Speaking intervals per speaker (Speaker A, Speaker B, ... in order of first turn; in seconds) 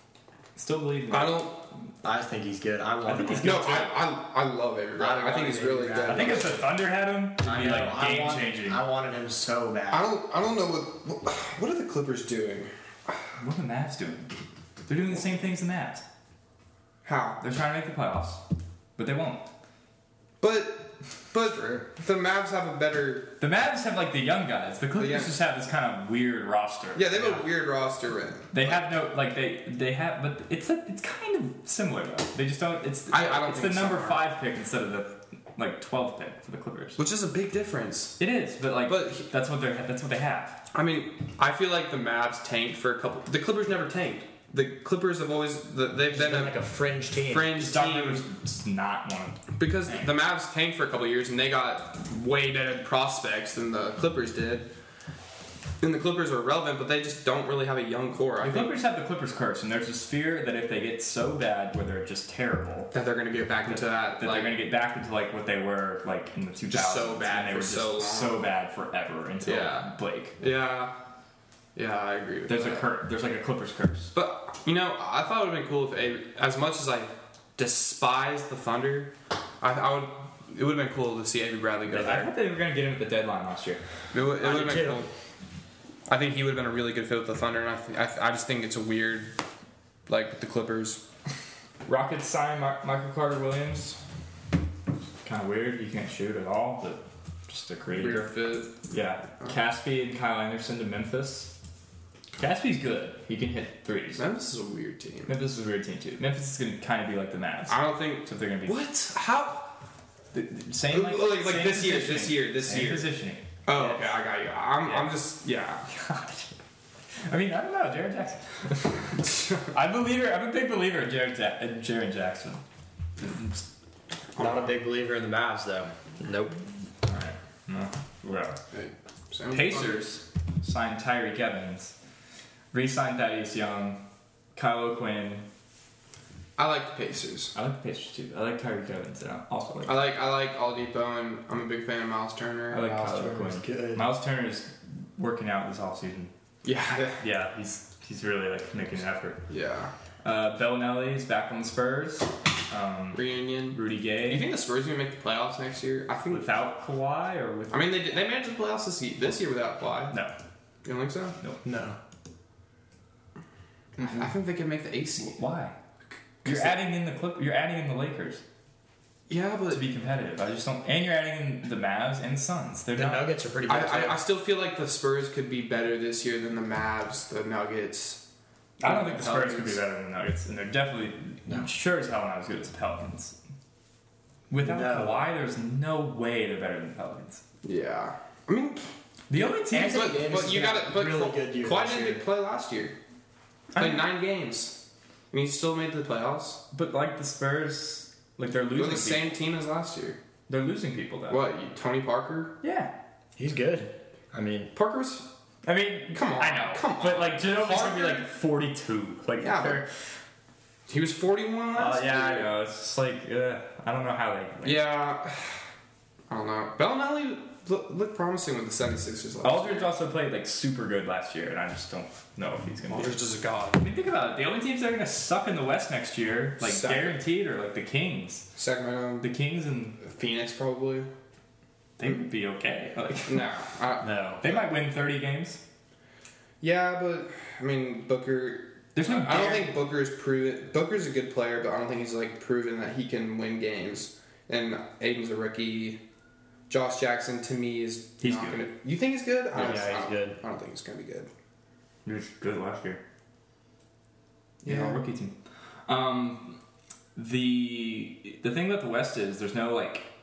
Speaker A: 0.6-1.6, 3.1-3.9, 6.1-8.8, 13.4-14.3, 14.9-16.0, 17.4-18.4, 19.0-19.4, 23.4-27.1, 28.5-37.0, 38.2-40.6, 47.6-50.1, 58.4-62.9, 63.7-70.4, 72.5-74.1, 81.9-83.8, 91.8-94.0, 95.2-98.3, 98.8-101.5, 102.4-104.2, 105.3-108.8, 110.3-114.2, 114.8-115.1, 115.9-116.5, 117.2-122.6, 123.2-123.6, 127.0-128.6, 129.5-131.9, 132.7-134.0, 134.6-135.5, 137.6-140.0, 142.7-146.3, 147.2-149.4, 150.2-154.5, 156.3-157.9, 165.2-165.8, 166.4-168.4, 169.7-173.3, 178.8-183.4, 184.5-187.4, 189.3-190.1, 193.7-194.1, 196.7-199.3, 200.5-201.4, 202.6-202.9, 205.6-209.9, 211.7-214.9, 219.4-228.5, 229.2-230.0, 232.0-233.5, 234.4-235.6, 238.9-239.8, 248.2-248.7, 249.6-249.9, 252.1-253.0, 254.6-255.3, 255.9-256.6, 257.1-260.1
Speaker B: 1.1-1.6, 3.4-6.7, 9.9-12.7, 17.1-17.4, 20.4-23.4, 25.0-25.4, 26.9-28.8, 33.1-34.3, 37.0-38.2, 38.9-39.2, 40.7-46.5, 47.2-48.2, 49.6-54.7, 55.8-58.8, 62.9-64.6, 66.7-68.5, 69.4-71.0, 71.8-72.9, 74.1-82.3, 84.1-85.1, 86.1-89.3, 90.1-91.0, 97.9-98.7, 104.1-105.3, 107.7-109.8, 110.9-113.1, 113.7-115.8, 124.4-124.7, 128.7-130.0, 136.6-137.5, 139.8-142.9, 146.6-147.2, 149.5-149.9, 153.1-156.5, 157.7-160.2, 160.8-161.4, 164.0-165.4, 166.4-166.8, 169.3-169.8, 173.7-178.2, 178.8-179.8, 187.6-192.9, 193.8-194.8, 195.3-196.6, 198.8-200.2, 201.3-202.6, 204.7-205.3, 206.1-208.3, 209.4-209.8, 210.9-212.5, 214.6-215.6, 216.3-219.9, 222.9-223.8, 226.6-227.2, 228.6-229.3, 230.0-231.1, 233.3-234.7, 236.6-246.0, 246.7-251.3, 254.6-255.0
Speaker C: 2.0-3.9, 5.0-6.6, 7.4-10.1, 46.1-47.6, 84.4-85.1, 124.4-126.5, 142.8-144.0, 161.6-162.0, 172.9-174.2, 184.6-185.2, 189.7-192.2, 203.4-204.7, 234.0-234.4, 249.5-250.4